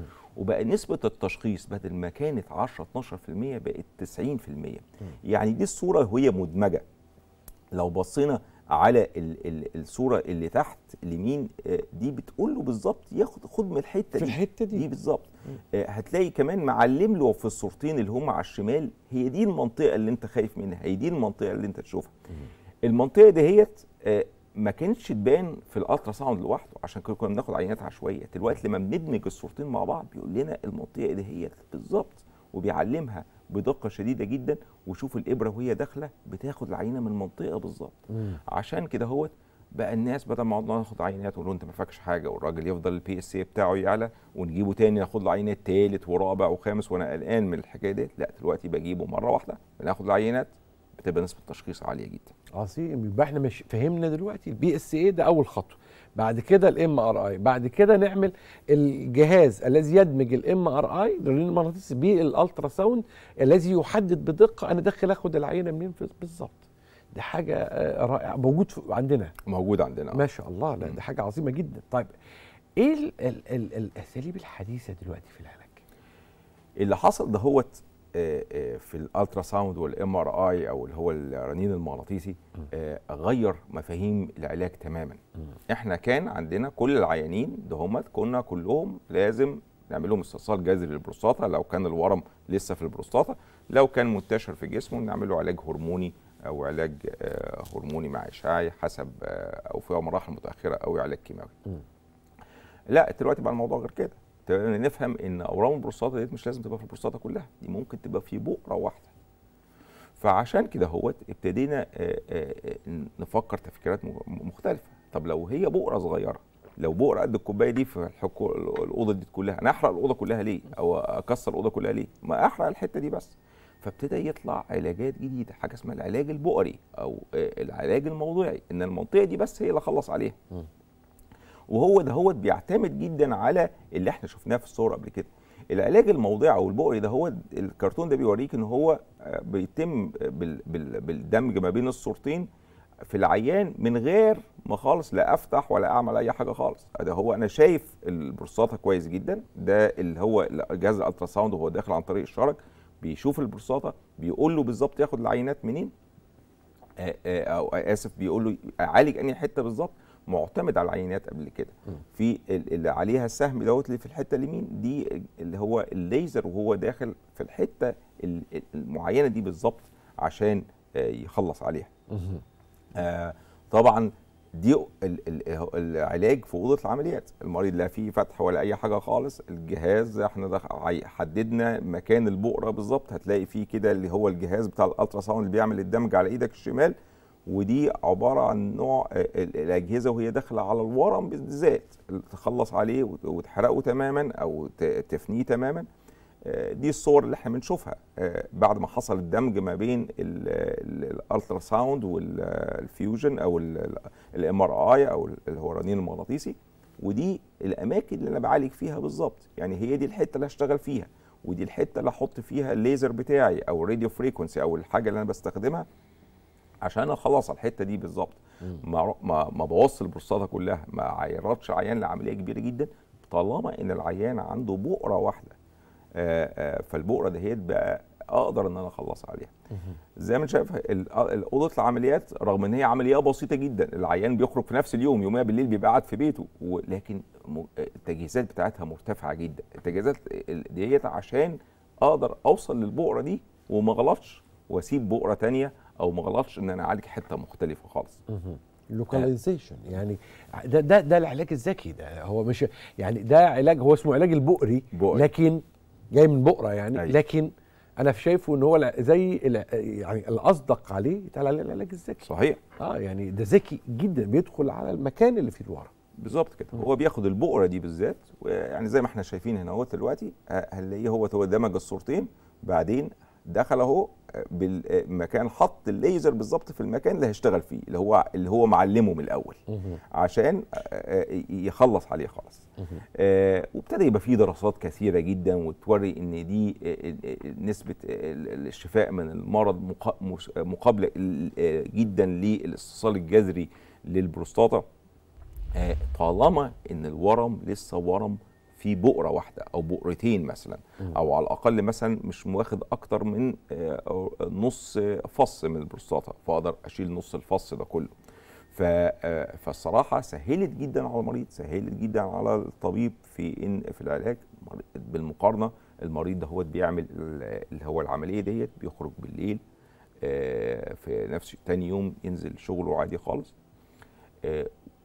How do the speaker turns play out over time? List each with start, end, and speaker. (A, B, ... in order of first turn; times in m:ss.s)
0:00.4-0:06.8 A
0:07.7-0:22.1 A
0:14.2-0:14.9 B
0:22.8-0:52.3 A
0:38.1-0:38.4 B
0:52.5-1:09.3 B
1:09.4-1:10.2 A
1:10.1-1:12.1 B
1:12.8-1:15.8 B
1:16.8-1:41.6 A
1:42.9-1:49.1 A
1:50.2-2:10.4 A
2:11.7-2:22.5 A
2:23.0-2:35.9 A
2:37.0-2:51.9 A
2:52.1-2:52.4 B
2:52.9-3:06.9 A
3:07.5-3:15.9 A
3:16.4-3:35.9 A
3:36.8-3:45.6 A
3:46.1-3:49.5 A
3:50.2-4:08.2 A
4:08.3-4:22.3 B
4:14.9-4:15.3 A
4:22.2-4:22.6 A
4:22.8-4:25.9 B
4:26.2-4:54.8 A
4:39.7-4:40.0 B
4:55.7-5:08.1 A
5:08.7-5:19.6 A
5:20.2-5:23.5 A
5:24.4-5:24.7 A